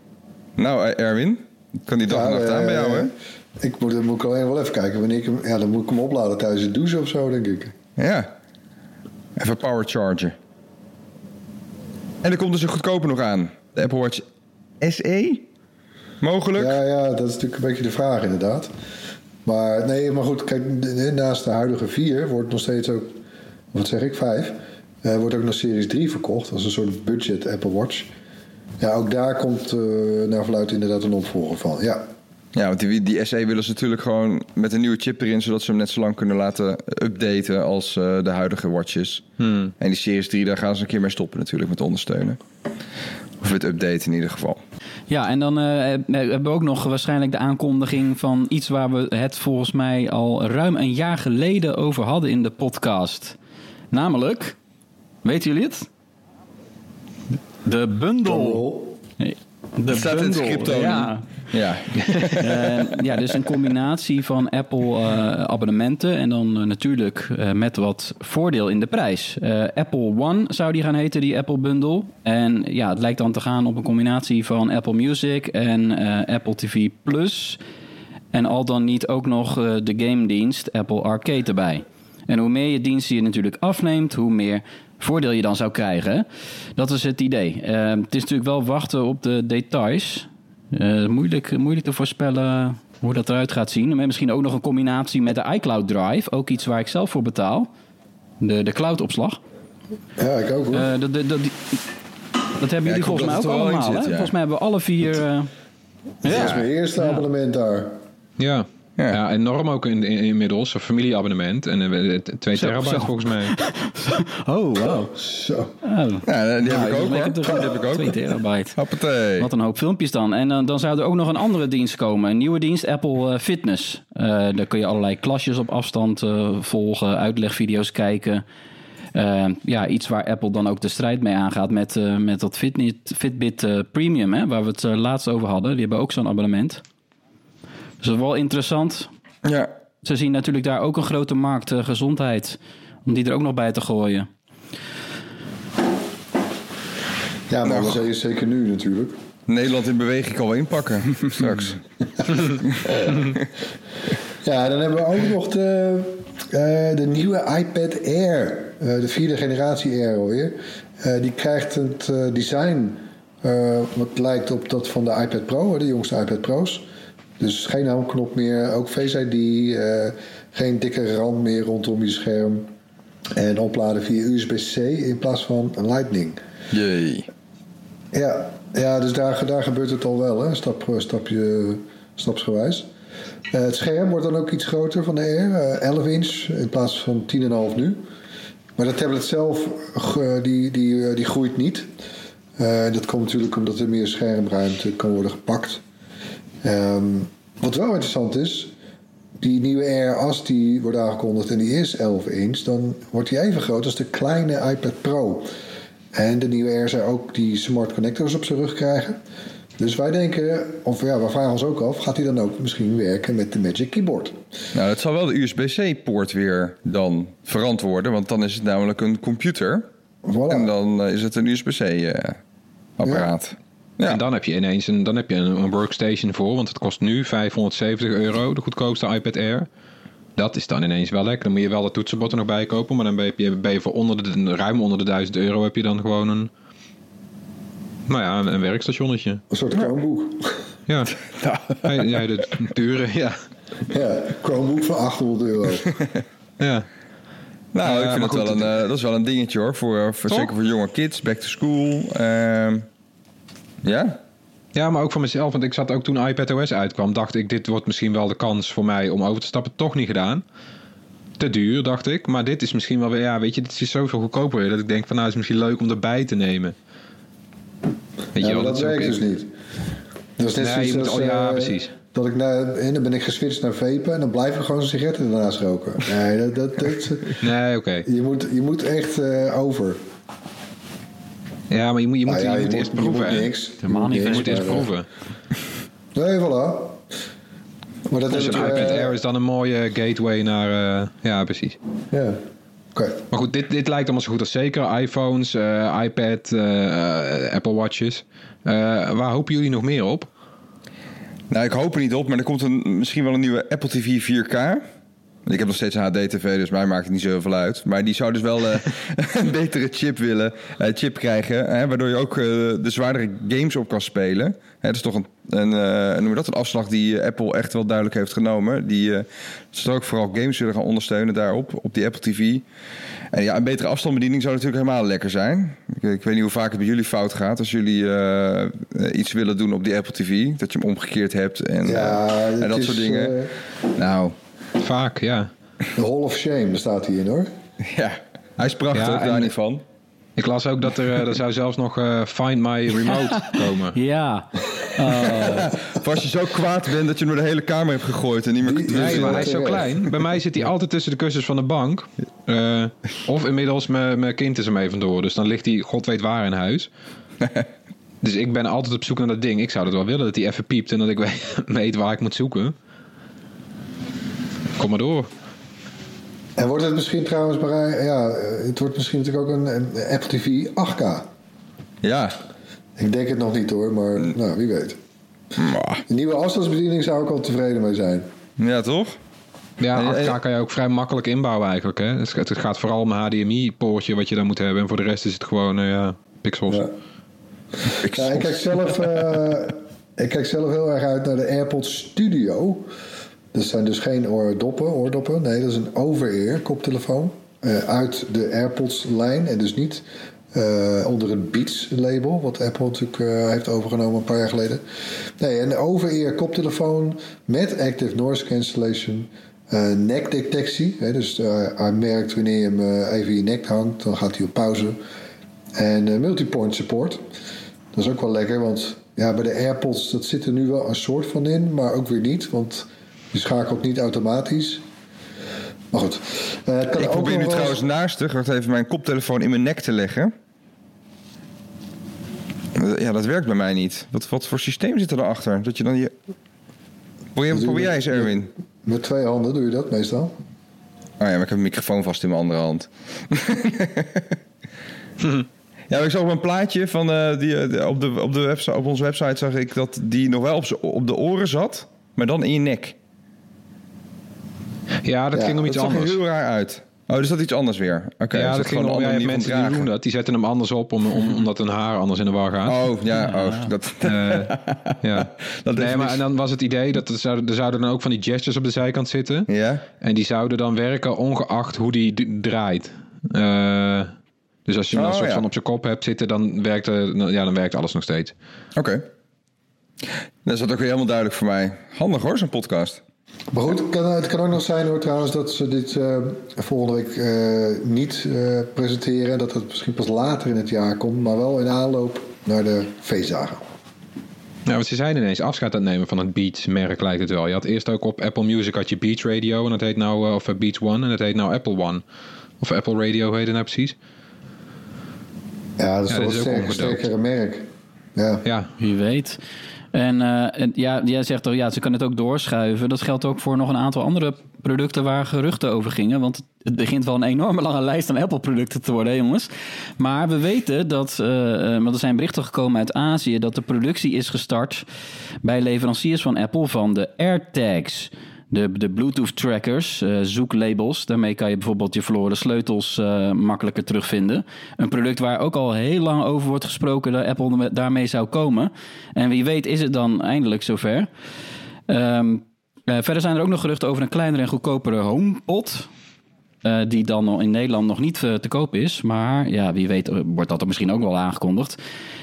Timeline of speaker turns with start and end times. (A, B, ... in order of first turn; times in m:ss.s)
0:00.6-0:03.1 A
0:02.1-0:07.8 B
0:08.0-0:08.3 A
0:09.4-0:10.4 A
0:12.2-0:14.2 A
0:14.8-0:15.4 A
0:16.2-0:16.8 A
0:16.6-0:18.7 B
0:19.4-0:23.2 B
0:23.7-0:28.1 B
0:28.8-0:32.1 B
0:32.6-0:39.3 A
0:39.4-0:39.7 C
0:39.8-0:42.4 A
0:43.4-0:44.6 A
0:45.1-0:53.4 D
0:53.9-0:54.6 D
0:55.2-0:55.9 D
0:57.6-0:58.6 D
0:58.2-0:58.9 B
0:59.2-1:01.3 D
0:59.9-1:02.8 A
1:02.3-1:17.6 D
1:18.3-1:37.7 D
1:38.4-1:39.4 D
1:40.2-1:40.9 B
1:40.7-1:41.8 D
1:42.6-1:45.5 D
1:42.8-1:44.3 A
1:46.2-1:47.2 D
1:46.2-1:48.0 B
1:46.3-1:46.6 A
1:48.4-1:53.6 C
1:52.6-1:55.2 D
1:55.1-1:55.7 B
1:55.8-1:58.8 D
1:56.2-1:58.2 A
1:58.8-1:59.5 A
1:59.4-2:08.4 D
2:09.1-2:16.8 D
2:18.0-2:19.1 D
2:19.4-2:19.7 A
2:20.0-2:24.3 D
2:27.5-2:29.1 B
2:27.6-2:28.0 A
2:29.5-2:31.8 A
2:32.3-2:33.4 A
2:32.8-2:33.2 B
2:34.4-2:46.8 B
2:47.4-2:52.7 B
2:53.4-2:56.4 B
2:56.7-2:57.3 A
2:58.1-3:02.9 B
3:03.5-3:08.0 B
3:08.8-3:11.9 B
3:12.6-3:15.8 B
3:16.6-3:18.7 B
3:19.4-3:25.5 B
3:26.1-3:29.2 B
3:29.8-3:34.4 B
3:34.7-3:39.9 A
3:40.2-3:40.7 B
3:40.5-3:42.4 A
3:43.0-3:44.2 A
3:43.1-3:43.3 B
3:44.0-3:49.7 C
3:50.4-3:56.5 C
3:58.1-3:59.4 C
3:59.5-4:00.6 B
4:00.9-4:01.2 C
4:01.3-4:01.9 A
4:01.8-4:03.4 C
4:03.9-4:05.9 B
4:06.6-4:06.9 C
4:07.7-4:12.9 A
4:07.8-4:08.8 C
4:13.8-4:14.2 A
4:14.8-4:20.4 C
4:21.4-4:26.8 C
4:28.4-4:29.2 C
4:28.4-4:29.5 B
4:30.4-4:37.4 B
4:30.4-4:31.9 C
4:37.4-4:38.1 C
4:38.0-4:40.0 B
4:41.7-4:45.1 C
4:42.3-4:44.9 B
4:44.0-4:44.3 D
4:46.1-4:47.0 B
4:48.1-4:49.2 B
4:48.3-4:51.8 C
4:52.1-4:52.4 B
4:52.9-4:53.2 B
4:53.3-5:00.3 C
5:01.5-5:04.8 A
5:05.4-5:22.6 A
5:23.3-5:33.4 A
5:31.8-5:33.5 B
5:33.9-5:34.4 A
5:34.8-5:35.5 C
5:36.0-5:37.5 B
5:37.8-5:39.8 A
5:38.9-5:39.5 C
5:40.4-5:44.0 C
5:43.9-5:45.7 D
5:45.2-5:49.8 A
5:48.6-5:50.0 B
5:48.9-5:56.9 C
5:58.2-6:02.8 C
6:04.8-6:05.3 C
6:06.6-6:11.3 B
6:12.0-6:12.4 A
6:13.0-6:15.0 B
6:15.6-6:16.0 A
6:16.1-6:18.3 B
6:18.6-6:19.2 A
6:19.8-6:26.8 C
6:19.9-6:20.4 A
6:26.7-6:26.9 B
6:28.0-6:28.6 A
6:28.0-6:32.9 B
6:33.5-6:55.0 B
6:55.8-6:57.3 B
6:57.9-7:04.8 B
7:05.9-7:07.8 B
7:07.0-7:10.3 A
7:12.8-7:16.1 A
7:17.4-7:18.5 A
7:17.5-7:20.3 B
7:21.2-7:24.4 A
7:25.9-7:33.0 A
7:35.0-7:36.2 C
7:35.4-7:35.6 B
7:35.6-7:39.9 A
7:38.3-7:42.9 C
7:42.6-7:46.2 A
7:43.1-7:43.7 D
7:44.0-7:44.5 C
7:45.0-7:49.5 C
7:49.5-7:49.8 A
7:50.0-7:54.1 C
7:54.7-7:58.3 C
7:54.9-7:55.4 A
7:58.8-7:59.0 A
8:00.4-8:03.0 A
8:03.5-8:13.6 B
8:14.7-8:22.0 C
8:22.6-8:24.0 C
8:25.8-8:28.4 B
8:26.1-8:27.0 C
8:28.4-8:28.7 C
8:28.8-8:29.4 D
8:29.9-8:44.9 D
8:45.4-9:01.1 D
9:01.9-9:05.9 D
9:06.6-9:11.8 D